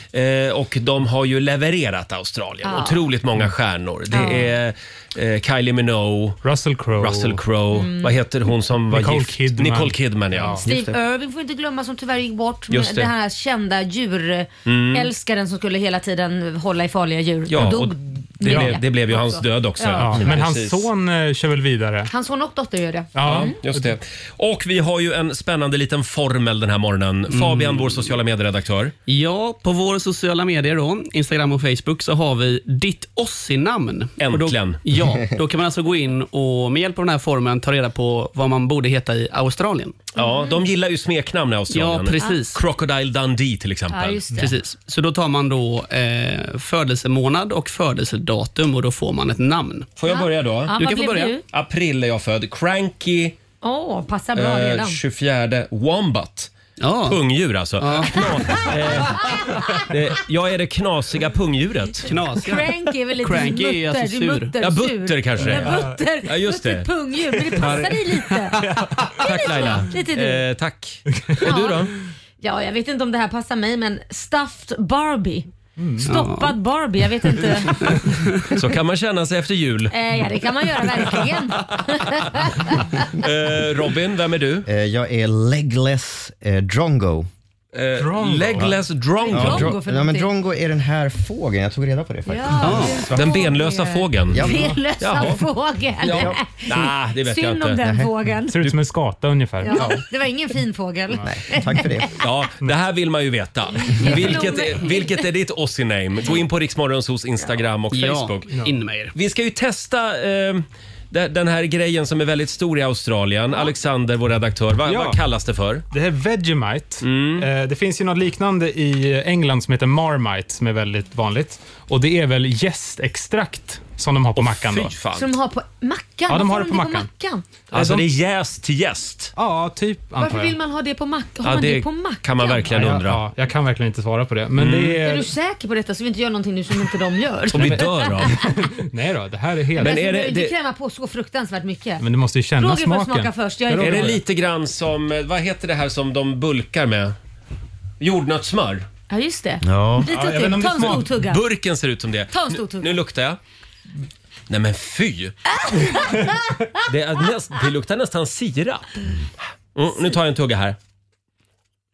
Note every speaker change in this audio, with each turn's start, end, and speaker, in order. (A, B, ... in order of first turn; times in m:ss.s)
0:00.1-0:06.4 A
0:02.6-0:03.0 B
0:04.1-0:04.5 B
0:06.4-0:07.4 C
0:07.0-0:10.6 A
0:07.7-0:08.1 B
0:08.9-0:10.6 C
0:10.6-0:11.0 D
0:10.6-0:20.2 B
0:12.7-0:13.1 A
0:14.6-0:15.1 A
0:17.5-0:20.9 A
0:18.4-0:18.8 C
0:19.9-0:22.1 C
0:22.1-0:23.5 B
0:23.1-0:23.9 C
0:23.2-0:28.9 A
0:27.3-0:28.1 E
0:29.1-0:40.0 E
0:34.2-0:34.8 A
0:40.1-0:44.2 A
0:40.2-0:40.5 B
0:41.7-0:42.6 E
0:43.9-0:44.5 B
0:44.3-0:49.9 E
0:50.0-0:50.9 A
0:50.1-0:51.4 B
0:50.7-0:51.4 E
0:51.5-0:53.4 A
0:53.6-0:55.0 B
0:54.4-1:02.1 A
0:56.8-0:57.2 E
0:57.8-0:58.2 E
0:58.2-0:59.8 B
1:02.0-1:02.7 E
1:02.4-1:08.6 B
1:03.2-1:04.5 E
1:04.6-1:06.9 A
1:05.5-1:06.0 C
1:07.6-1:08.0 E
1:08.6-1:09.2 C
1:09.2-1:10.4 B
1:09.2-1:11.9 A
1:11.4-1:11.8 B
1:12.4-1:15.5 B
1:15.8-1:16.1 C
1:16.0-1:18.0 B
1:16.0-1:16.6 E
1:18.5-1:19.9 A
1:19.9-1:23.1 B
1:23.1-1:24.7 A
1:24.6-1:27.3 D
1:27.7-1:29.7 A
1:28.0-1:28.7 C
1:29.2-1:30.3 B
1:29.3-1:33.0 D
1:32.3-1:38.7 B
1:32.6-1:33.1 E
1:33.1-1:34.5 A
1:34.3-1:34.7 D
1:35.0-1:35.4 A
1:36.0-1:37.8 A
1:36.1-1:36.4 D
1:37.8-1:38.1 D
1:38.5-1:40.0 C
1:39.6-1:42.1 B
1:41.2-1:42.1 D
1:42.2-1:48.5 A
1:43.8-1:45.2 B
1:47.9-1:49.1 E
1:49.1-1:55.8 A
1:54.8-1:55.2 C
1:55.9-2:04.9 C
1:57.0-1:57.5 A
2:04.4-2:05.3 A
2:05.1-2:07.4 B
2:06.3-2:07.1 C
2:07.7-2:08.1 C
2:07.7-2:09.3 A
2:09.4-2:10.6 C
2:10.2-2:12.7 B
2:11.4-2:13.2 A
2:12.7-2:15.3 C
2:14.6-2:15.0 A
2:15.0-2:18.6 B
2:17.5-2:18.4 A
2:17.5-2:20.0 C
2:19.8-2:20.5 A
2:19.8-2:22.0 B
2:22.0-2:24.2 C
2:22.6-2:24.2 B
2:23.8-2:27.1 A
2:28.0-2:28.9 A
2:29.1-2:31.4 B
2:29.6-2:30.1 D
2:30.0-2:31.1 C
2:31.2-2:33.4 A
2:32.3-2:33.0 B
2:34.5-2:35.4 A
2:35.7-2:36.3 B
2:36.8-2:39.0 A
2:39.7-2:40.8 A